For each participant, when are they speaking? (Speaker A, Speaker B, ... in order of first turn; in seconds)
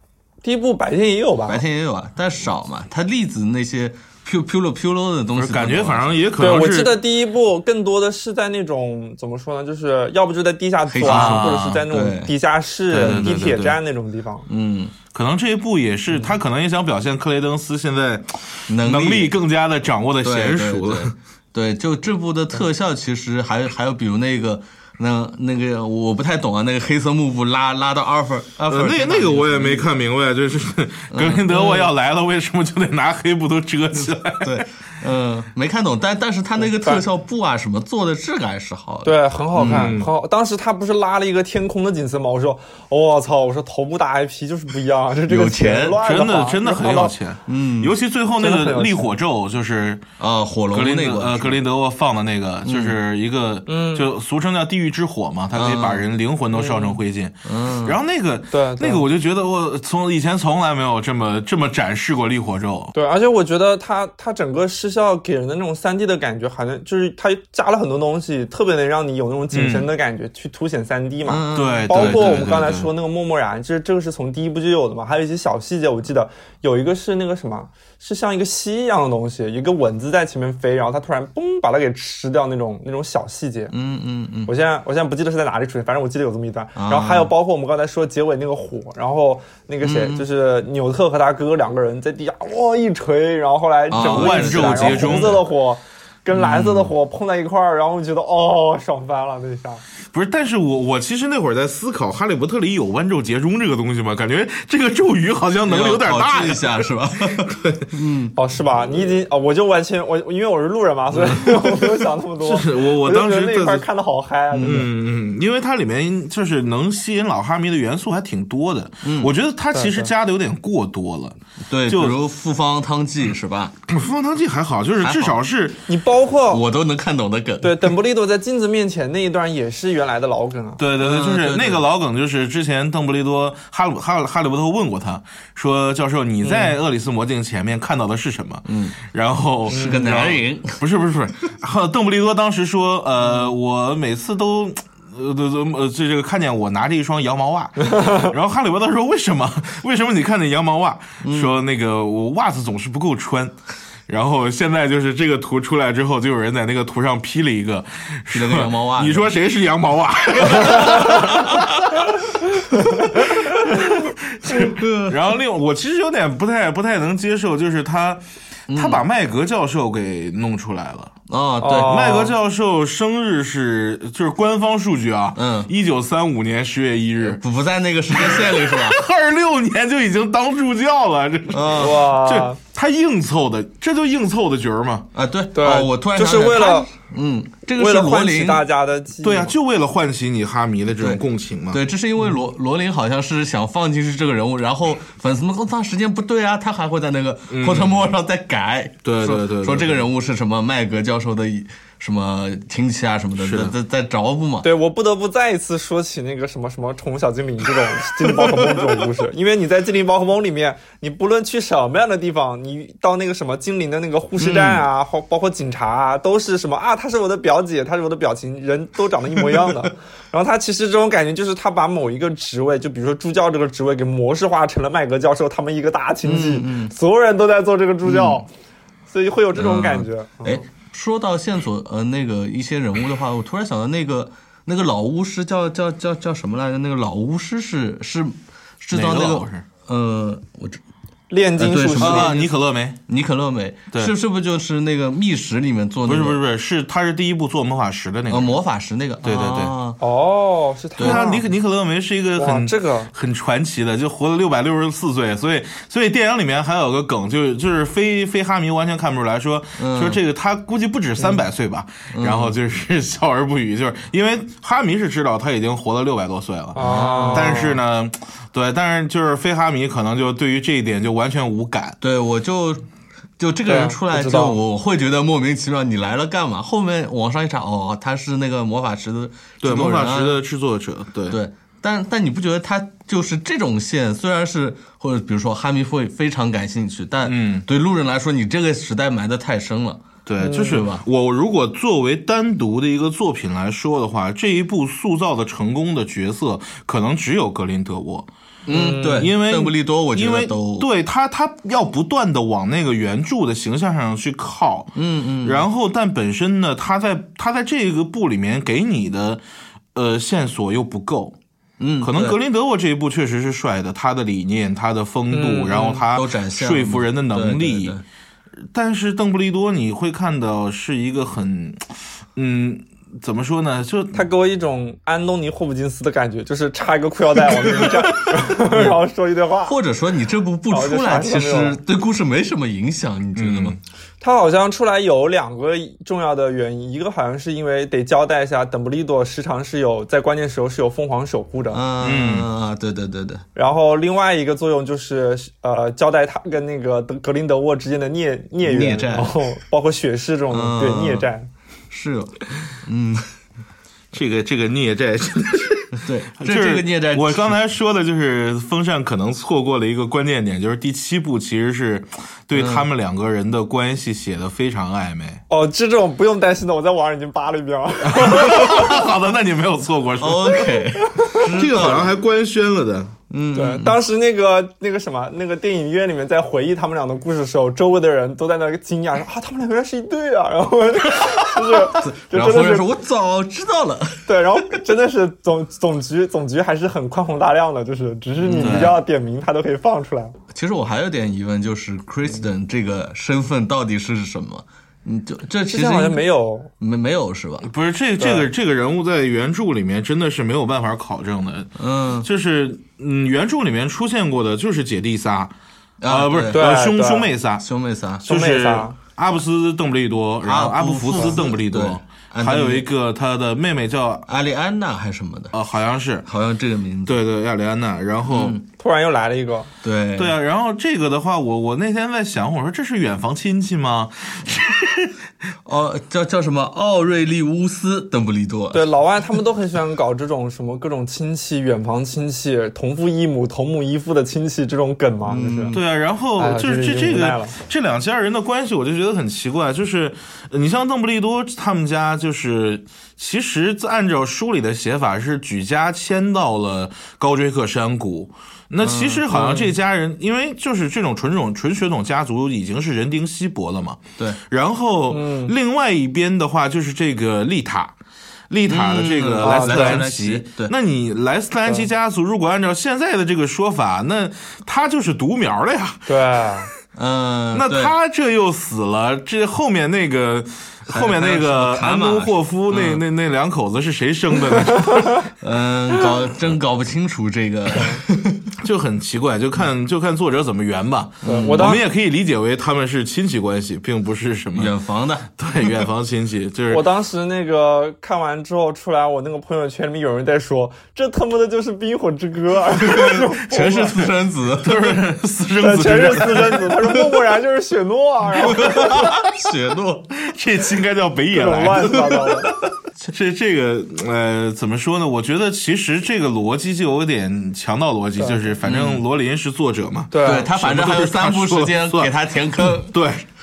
Speaker A: 0.4-1.6, 6.4-14.5, 31.5-31.9, 36.6-37.0, 39.0-47.1, 48.4-49.1, 53.7-54.1, 56.5-57.0, 58.5-59.0, 62.9-83.7, 84.5-99.8, 108.3-114.9, 119.7-120.1, 125.9-126.6, 127.6-130.8, 136.4-136.7, 139.7-140.0, 147.9-148.3, 162.7-163.1, 171.6-172.3, 181.7-182.6, 185.5-186.9, 187.7-189.6, 204.6-228.5, 229.1-230.6, 241.3-242.4, 250.0-251.4, 252.4-253.1, 266.7-267.8, 273.7-274.6, 290.4-290.9, 298.7-299.3, 315.3-316.0, 324.1-329.8, 330.7-331.8, 334.2-341.8, 343.6-351.5, 365.5-368.9, 371.1-371.5, 373.5-382.9, 384.3-390.4, 395.7-396.7, 398.2-398.4, 406.5-407.3, 408.3-408.9, 418.8-419.7, 428.7-435.8, 436.4-437.6, 449.3-449.7, 455.1-455.5, 459.4-460.0, 466.1-466.7, 481.2-481.8, 486.7-494.1, 495.6-498.9, 501.3-502.5, 510.1-510.5
Speaker B: 1.5-6.1, 10.9-12.3, 12.9-13.4, 14.5-14.9, 18.7-19.4, 20.2-29.9, 31.1-31.5, 34.0-40.0, 45.3-46.0, 47.5-48.0, 50.2-51.6, 52.6-53.0, 55.5-56.0, 57.4-58.0, 71.3-72.7, 83.7-84.5, 86.8-87.3, 89.8-90.3, 93.9-95.4, 96.3-96.9, 105.7-108.3, 111.3-111.6, 114.5-114.9, 119.0-119.3, 121.7-123.8, 125.0-125.4, 126.5-127.9, 131.0-131.8, 138.7-139.0, 139.7-140.8, 151.2-151.6, 158.3-159.3, 160.5-161.9, 164.6-165.2, 168.7-169.0, 171.3-172.1, 175.4-175.7, 177.2-179.1, 181.5-182.1, 185.1-188.6, 191.0-204.7, 214.4-214.8, 226.2-226.9, 228.0-228.4, 229.6-240.8, 241.6-242.5, 243.1-246.4, 248.3-250.0, 251.0-251.2, 259.8-260.2, 262.1-262.6, 266.8-267.7, 272.0-272.9, 273.4-280.4, 281.3-291.0, 298.7-300.9, 304.9-305.6, 311.8-312.4, 316.0-318.0, 327.6-327.9, 328.5-329.0, 329.6-333.8, 341.7-343.4, 348.6-349.4, 350.5-351.3, 351.9-353.3, 355.9-357.5, 362.5-362.9, 370.2-372.1, 373.3-374.0, 381.2-384.3, 388.4-389.0, 390.5-396.2, 396.8-397.7, 401.8-402.3, 406.0-406.7, 407.6-408.3, 410.4-412.9, 414.3-415.6, 416.3-417.2, 418.3-418.6, 419.8-420.4, 425.6-428.9, 435.3-435.8, 448.8-449.2, 458.7-460.7, 466.9-467.9, 470.9-473.0, 475.4-478.6, 481.2-481.8, 484.6-485.9, 492.9-495.0, 498.4-500.1, 508.6-509.1, 510.2-513.0
Speaker C: 5.3-7.0, 11.0-11.8, 12.9-13.8, 15.1-21.1, 28.7-34.6, 39.6-40.1, 46.0-50.0, 50.7-62.9, 69.5-69.9, 71.5-72.9, 93.9-95.4, 100.1-107.9, 112.4-113.9, 114.6-122.2, 123.9-125.8, 130.8-153.6, 154.1-162.1, 163.1-171.2, 171.8-177.4, 178.1-185.1, 189.2-191.8, 197.5-198.0, 199.1-200.1, 203.4-203.8, 238.9-239.7, 242.0-243.0, 246.1-248.6, 249.2-249.7, 251.0-272.0, 279.6-281.4, 287.2-287.6, 290.3-298.3, 298.9-309.4, 309.9-311.4, 312.0-318.0, 318.7-324.2, 333.4-333.8, 342.0-342.5, 354.1-365.4, 368.1-370.8, 371.4-373.1, 388.6-388.9, 397.6-405.5, 406.0-407.6, 408.2-414.3, 415.5-416.3, 417.1-418.6, 420.1-425.1, 435.7-457.9, 458.5-466.4, 467.5-475.3, 478.6-484.7, 485.4-486.9, 493.9-497.1, 498.6-499.1, 500.2-502.4, 503.0-513.2